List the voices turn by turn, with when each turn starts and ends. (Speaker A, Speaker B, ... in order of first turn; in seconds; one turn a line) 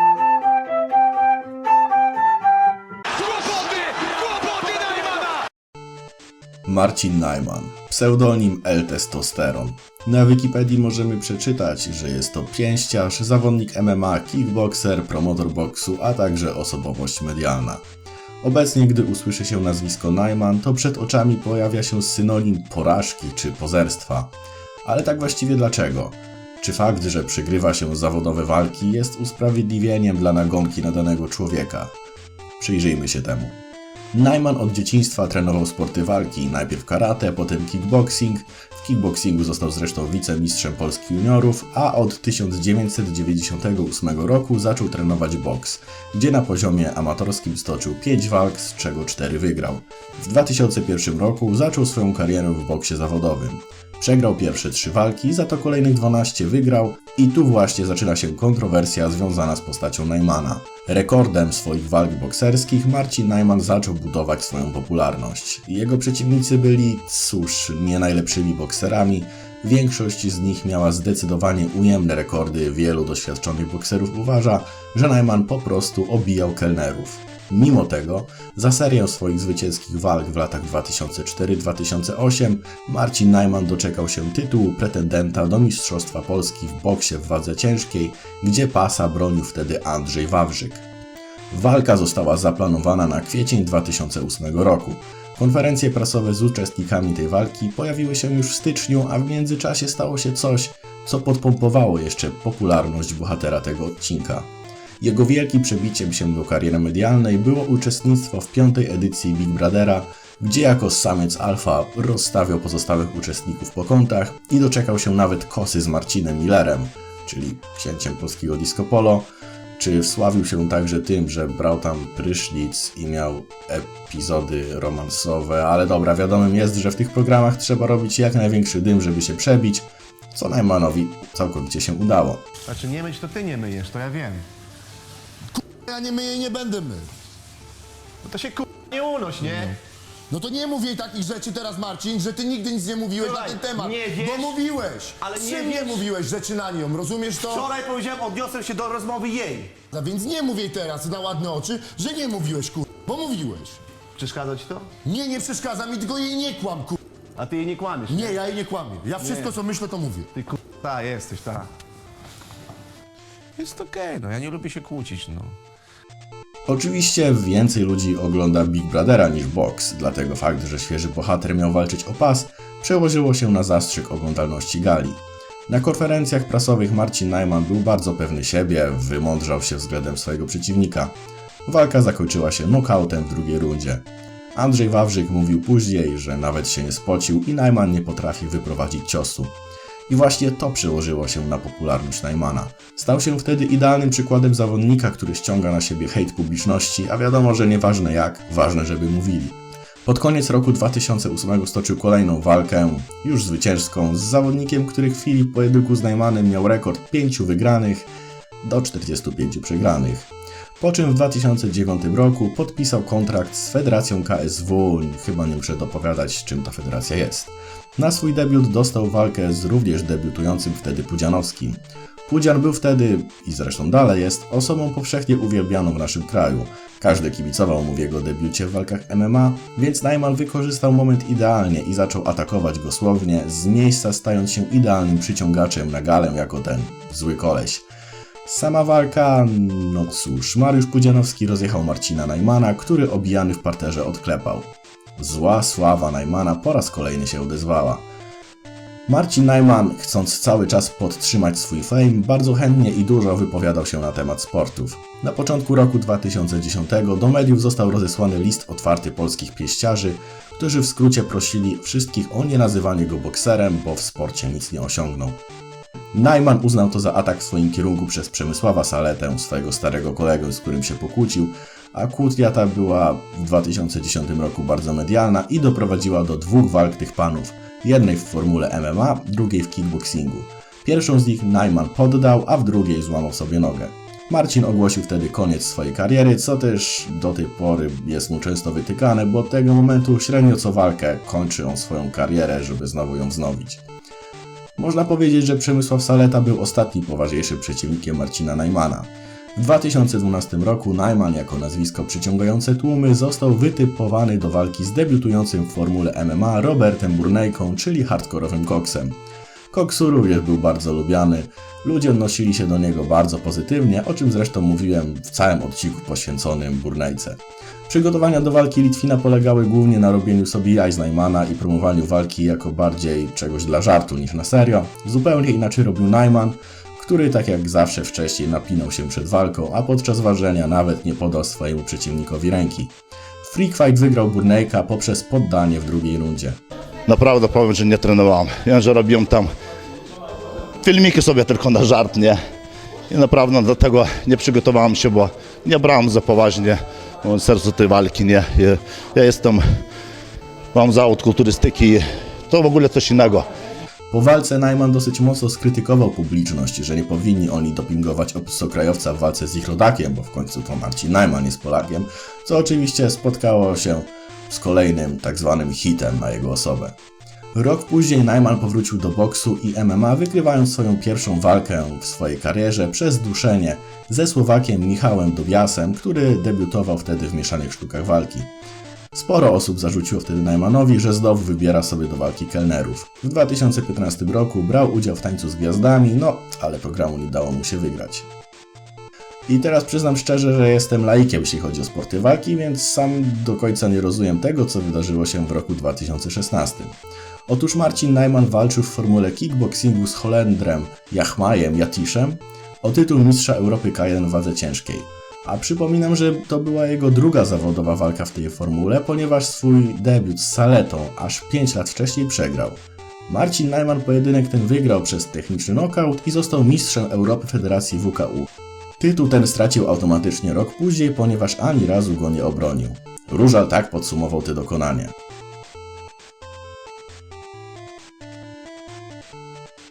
Speaker A: 6.7-17.9
Speaker A: 18.4-24.3
Speaker A: 24.8-31.9
Speaker A: 32.6-33.6
Speaker A: 34.1-90.8
Speaker A: 91.5-104.5
Speaker A: 105.0-132.4
Speaker B: 132.7-134.4
Speaker C: 135.5-137.1
Speaker B: 138.2-139.7
Speaker C: 140.3-147.7
Speaker B: 143.2-144.6
Speaker B: 145.2-146.0
Speaker B: 147.5-149.7
Speaker C: 149.9-153.8
Speaker B: 154.2-154.9
Speaker C: 155.0-157.0
Speaker B: 157.4-158.4
Speaker C: 158.1-160.3
Speaker B: 159.2-159.5
Speaker B: 160.3-161.7
Speaker D: 163.6-165.6
Speaker A: 166.7-189.5
Speaker A: 190.1-208.1
Speaker A: 208.6-237.8
Speaker A: 238.4-248.1
Speaker A: 249.1-265.4
Speaker A: 266.1-293.8
Speaker A: 294.8-309.2
Speaker A: 309.7-336.6
Speaker E: 337.1-339.5
Speaker E: 340.8-342.4
Speaker E: 343.1-349.8
Speaker E: 350.7-353.5
Speaker A: 354.1-366.9
Speaker A: 367.5-378.5
Speaker A: 379.1-388.3
Speaker A: 389.5-425.1